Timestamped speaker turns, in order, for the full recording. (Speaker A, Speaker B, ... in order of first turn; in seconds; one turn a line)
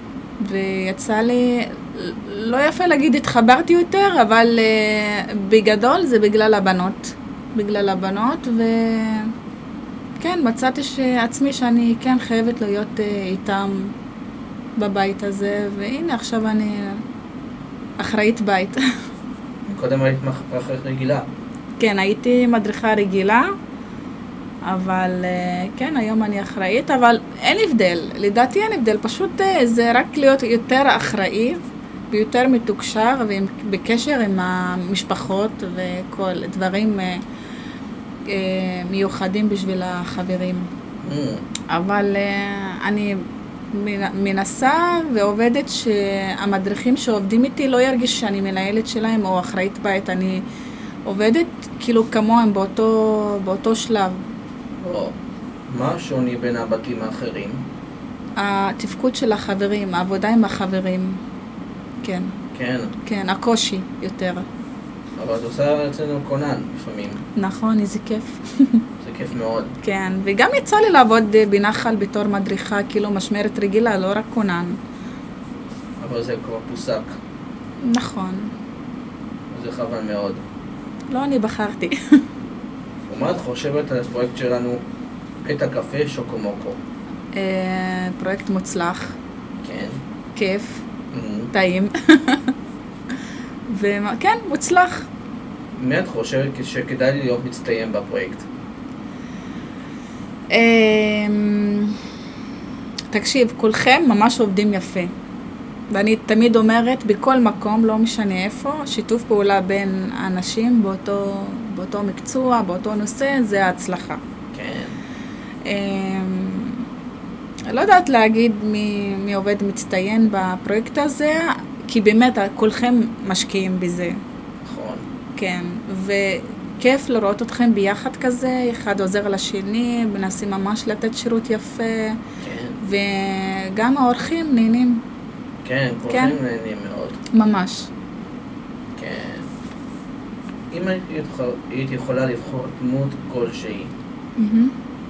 Speaker A: 0.4-9.3
Speaker A: 10.2-13.9
Speaker A: 14.8-17.0
Speaker A: 18.0-18.8
Speaker B: 19.6-21.3
Speaker A: 21.8-23.4
Speaker A: 24.7-31.6
Speaker A: 32.1-37.2
Speaker A: 38.3-40.7
Speaker B: 41.0-41.4
Speaker A: 41.7-50.4
Speaker A: 51.0-54.2
Speaker B: 54.8-55.1
Speaker B: 55.7-57.6
Speaker A: 58.4-61.2
Speaker A: 62.0-62.3
Speaker B: 62.5-62.9
Speaker A: 63.0-64.4
Speaker B: 65.2-67.2
Speaker A: 67.3-68.8
Speaker B: 69.0-69.7
Speaker A: 69.8-74.8
Speaker B: 76.0-77.1
Speaker A: 77.8-78.5
Speaker B: 79.5-80.4
Speaker A: 81.1-82.0
Speaker B: 83.1-84.8
Speaker B: 85.4-86.8
Speaker A: 87.3-89.2
Speaker B: 89.6-90.0
Speaker A: 90.3-90.8
Speaker B: 91.1-91.5
Speaker A: 91.5-92.5
Speaker A: 93.7-95.1
Speaker B: 95.7-98.5
Speaker A: 100.5-102.0
Speaker A: 103.1-105.1
Speaker A: 105.9-114.2
Speaker B: 114.5-115.0
Speaker A: 115.7-116.8
Speaker A: 117.7-124.2
Speaker B: 124.6-125.0
Speaker A: 125.3-132.2
Speaker B: 132.4-132.8
Speaker A: 132.8-135.0
Speaker B: 135.6-137.2
Speaker A: 136.1-136.4
Speaker A: 137.3-137.9
Speaker B: 138.9-139.5
Speaker B: 140.7-143.9
Speaker A: 144.4-144.7